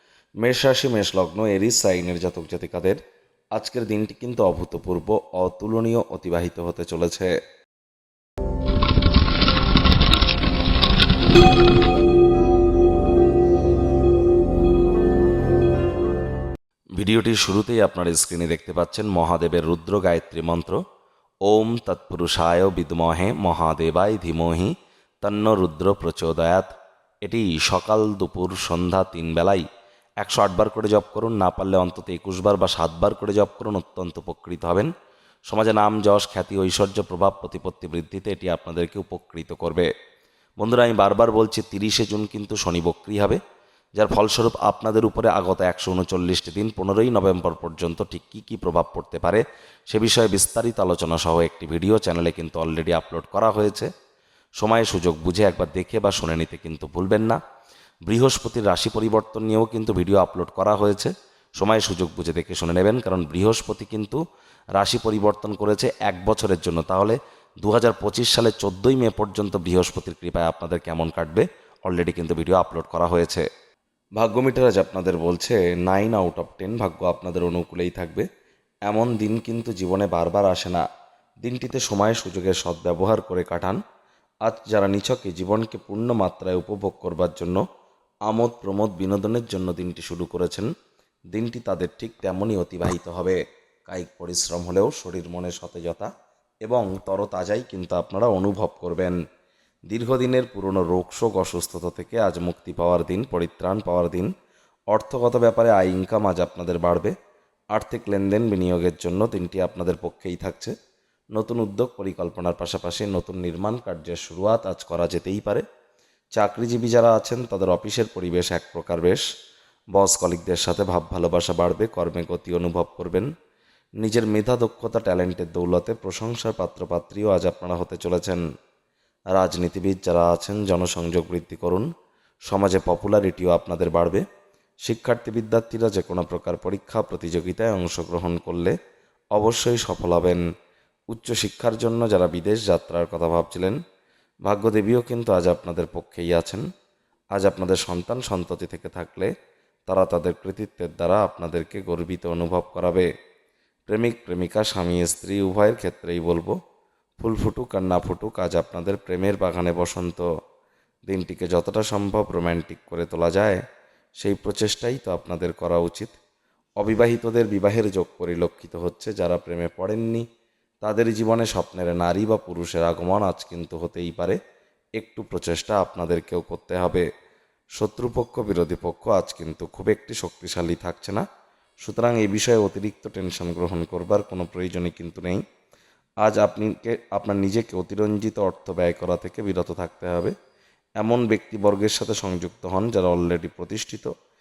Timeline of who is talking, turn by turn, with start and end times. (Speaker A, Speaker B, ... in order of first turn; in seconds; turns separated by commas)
Speaker A: 0.4-3.0, Speaker A: 3.5-7.3, Speaker A: 17.0-20.8, Speaker A: 21.4-26.7, Speaker A: 27.2-29.6, Speaker A: 30.2-34.9, Speaker A: 35.5-39.9, Speaker A: 40.6-43.4, Speaker A: 44.0-53.9, Speaker A: 54.6-57.4, Speaker A: 58.1-64.2, Speaker A: 64.8-73.5, Speaker A: 74.2-78.2, Speaker A: 78.8-80.8, Speaker A: 81.4-83.8, Speaker A: 84.4-87.6, Speaker A: 88.3-90.7, Speaker A: 91.3-96.1, Speaker A: 96.6-99.2, Speaker A: 99.9-104.3, Speaker A: 104.9-107.1, Speaker A: 107.7-110.7, Speaker A: 111.3-115.6, Speaker A: 116.3-119.2, Speaker A: 119.9-123.3, Speaker A: 124.0-128.4, Speaker A: 129.3-131.9, Speaker A: 132.5-134.2, Speaker A: 134.8-138.8, Speaker A: 139.3-140.4, Speaker A: 141.1-143.8, Speaker A: 144.4-146.6, Speaker A: 147.3-149.3, Speaker A: 149.9-153.1, Speaker A: 153.9-156.5, Speaker A: 157.2-160.3, Speaker A: 161.1-163.6, Speaker A: 164.2-166.2, Speaker A: 166.8-170.2, Speaker A: 170.8-174.4, Speaker A: 175.0-177.1, Speaker A: 177.8-181.2, Speaker A: 181.8-185.4, Speaker A: 186.2-190.3, Speaker A: 191.0-194.1